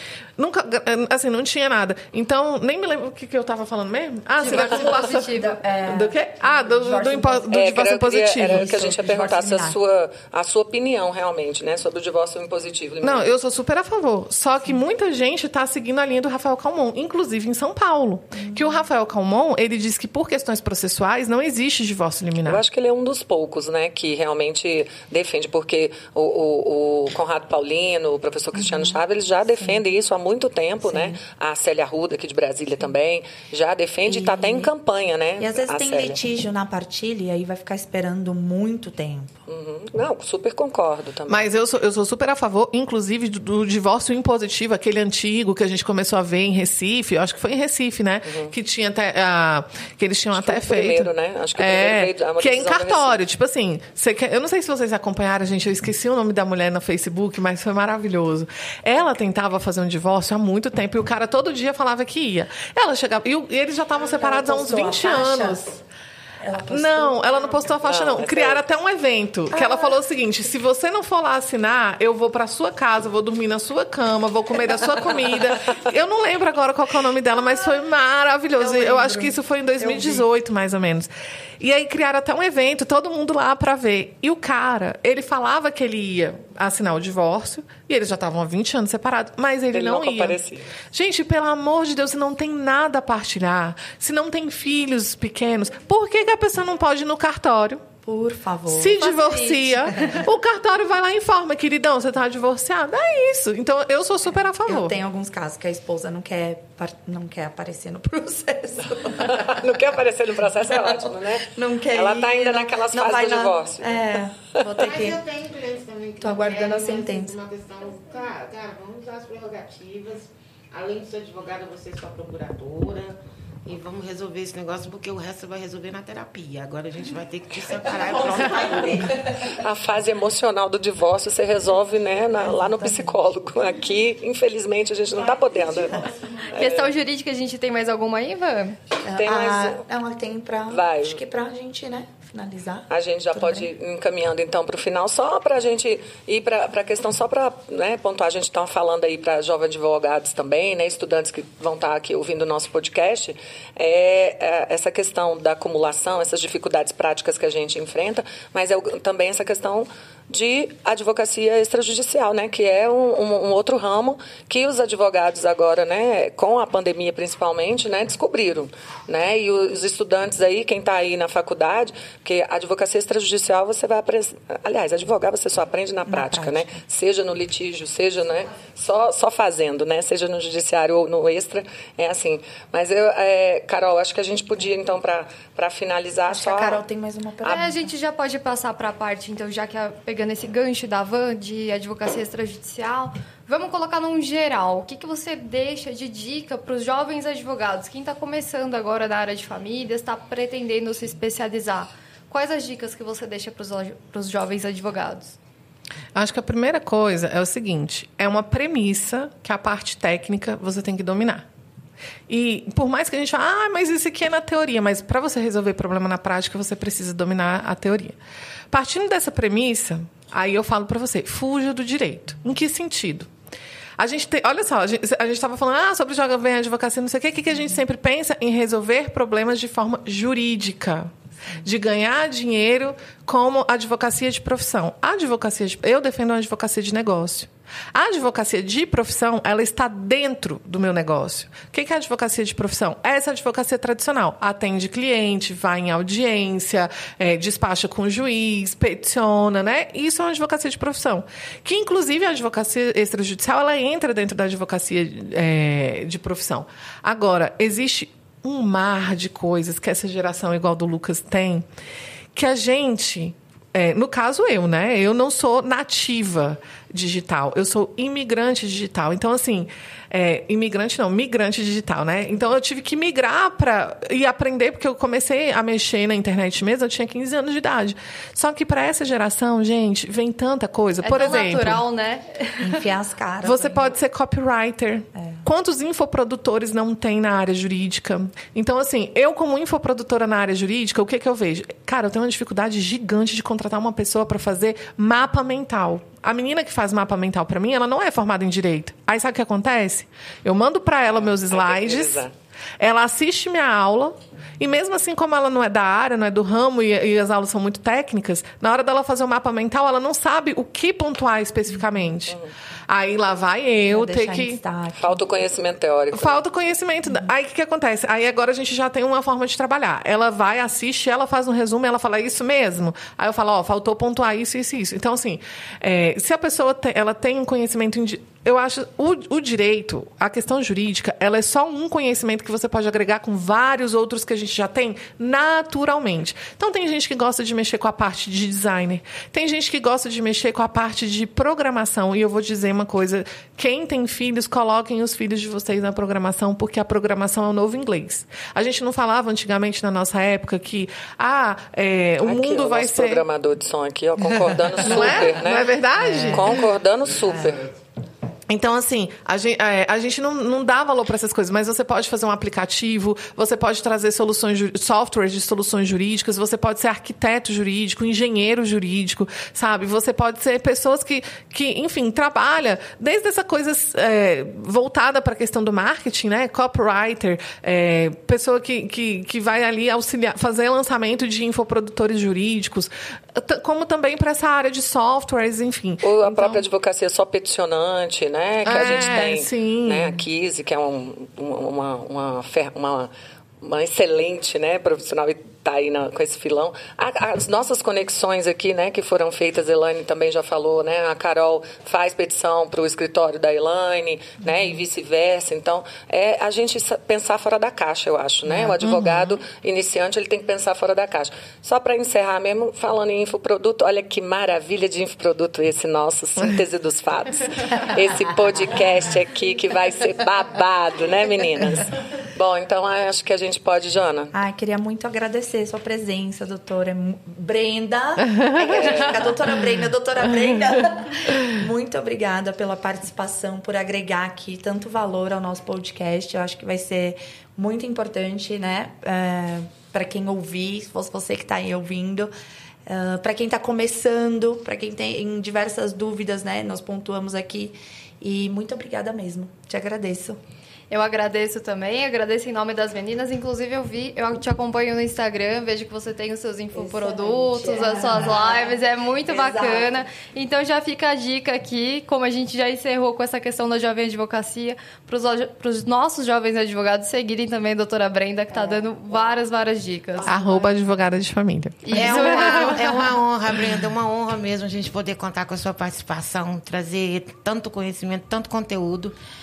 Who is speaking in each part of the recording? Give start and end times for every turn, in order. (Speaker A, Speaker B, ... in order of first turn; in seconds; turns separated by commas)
Speaker A: 0.4-8.8, Speaker B: 4.4-5.6, Speaker C: 5.4-7.5, Speaker D: 7.5-13.3, Speaker C: 8.4-9.8, Speaker A: 13.0-22.6, Speaker C: 18.4-18.7, Speaker D: 22.4-36.2, Speaker C: 28.6-29.0, Speaker C: 30.8-31.2, Speaker C: 34.0-34.7, Speaker C: 35.4-39.4, Speaker D: 39.5-41.5, Speaker A: 41.3-65.8, Speaker D: 48.3-48.5, Speaker D: 50.3-53.2, Speaker C: 64.1-65.7, Speaker C: 66.4-67.4, Speaker A: 66.6-81.1, Speaker D: 67.8-68.6, Speaker C: 69.5-69.9, Speaker C: 78.6-80.2, Speaker A: 81.6-90.4, Speaker D: 89.7-90.7, Speaker A: 90.9-97.8, Speaker C: 98.0-99.0, Speaker A: 98.7-105.0, Speaker B: 99.0-99.9, Speaker C: 104.7-109.7, Speaker D: 109.2-114.0, Speaker C: 110.7-115.2, Speaker E: 114.8-129.2, Speaker C: 116.2-117.3, Speaker C: 128.0-129.5, Speaker D: 129.5-136.0, Speaker C: 132.4-133.2, Speaker D: 136.5-136.9, Speaker B: 136.6-138.8, Speaker C: 139.0-143.7, Speaker D: 139.2-139.8, Speaker D: 140.7-141.2, Speaker D: 142.9-186.8, Speaker C: 176.1-176.8, Speaker C: 186.3-187.9, Speaker B: 187.4-205.4, Speaker A: 206.2-211.5, Speaker A: 212.3-218.2, Speaker A: 218.7-223.3, Speaker A: 224.0-261.7, Speaker A: 262.4-281.8, Speaker B: 281.0-282.8, Speaker C: 282.6-283.9, Speaker A: 283.4-302.2, Speaker D: 301.1-302.3, Speaker A: 302.8-314.6, Speaker C: 313.9-315.2, Speaker D: 314.9-316.4, Speaker A: 316.1-353.2, Speaker D: 352.2-357.7, Speaker A: 354.4-356.6, Speaker A: 358.5-386.6, Speaker D: 386.0-393.1, Speaker A: 388.6-390.2, Speaker D: 393.6-424.3, Speaker A: 408.5-409.4, Speaker C: 424.3-442.3, Speaker D: 428.7-429.3, Speaker C: 442.9-450.4, Speaker B: 450.9-470.4, Speaker C: 456.7-460.0, Speaker C: 468.5-469.3, Speaker A: 470.3-472.7, Speaker E: 470.3-470.6, Speaker B: 471.8-473.0, Speaker E: 471.9-479.1